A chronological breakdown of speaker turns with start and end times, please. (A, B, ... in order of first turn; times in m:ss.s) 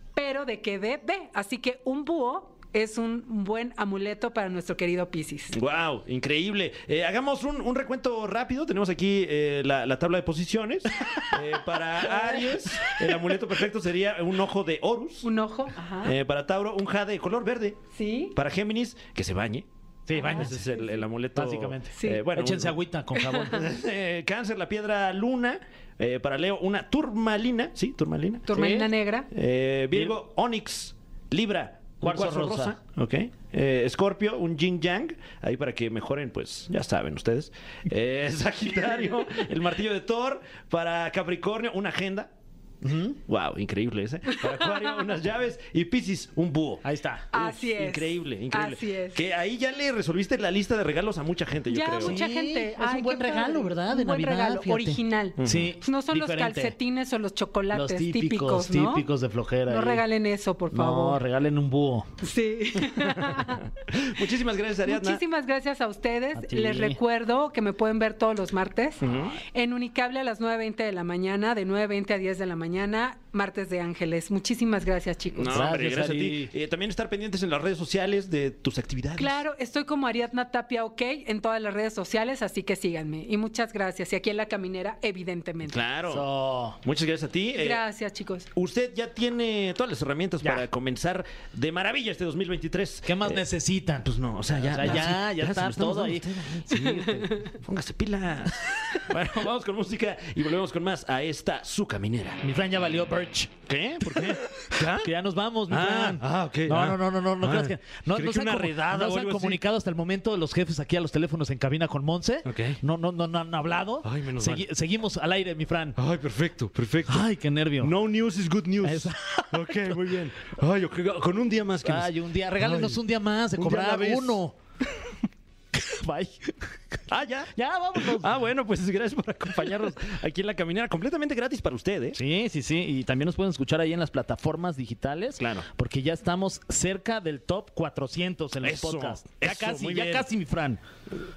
0:00.1-0:05.6 A
0:05.5-0:15.3 B
0:12.2-0:12.9 A
0:15.2-0:16.1 A
0:16.0-0:17.8 B
0:17.9-0:18.3 A
0:18.3-0:22.8 B
0:20.1-0:20.7 C
0:20.1-0:21.0 A
0:21.3-0:23.6 C
0:21.9-0:22.2 A
0:23.1-0:23.6 A
0:23.5-0:28.5 B
0:28.5-0:29.3 A
0:28.5-0:28.9 C
0:29.3-0:42.3 B
0:32.0-0:32.8 C
0:42.8-0:43.2 C
0:43.3-0:52.2 B
0:44.3-0:45.1 A
0:46.8-0:47.3 C
0:47.3-0:49.2 A
0:51.7-0:59.1 A
0:52.0-0:56.8 C
0:55.4-0:55.7 B
0:57.7-1:00.0 C
0:59.7-1:01.2 A
1:00.7-1:02.1 C
1:02.2-1:03.7 A
1:03.9-1:05.2 B
1:04.8-1:15.6 A
1:06.3-1:07.0 C
1:09.0-1:09.4 B
1:15.3-1:19.4 B
1:15.5-1:16.5 C
1:19.2-1:25.8 A
1:25.6-1:26.2 B
1:26.1-1:26.8 C
1:26.8-1:27.8 B
1:27.5-1:28.5 A
1:28.5-1:33.4 B
1:33.0-1:34.1 C
1:34.0-1:36.6 B
1:34.7-1:37.3 C
1:37.0-1:37.5 A
1:37.4-1:42.4 B
1:42.4-1:43.5 C
1:43.7-1:45.1 B
1:44.1-1:56.0 C
1:45.7-1:49.6 B
1:52.4-1:52.8 B
1:54.0-1:54.6 B
1:56.0-1:57.2 B
1:57.1-1:57.9 C
1:57.8-2:03.0 B
1:58.8-2:00.0 C
2:01.8-2:04.5 C
2:03.6-2:04.4 B
2:05.7-2:07.0 C
2:07.1-2:12.2 B
2:07.5-2:08.3 C
2:12.2-2:20.8 C
2:15.4-2:15.7 B
2:18.6-2:20.2 B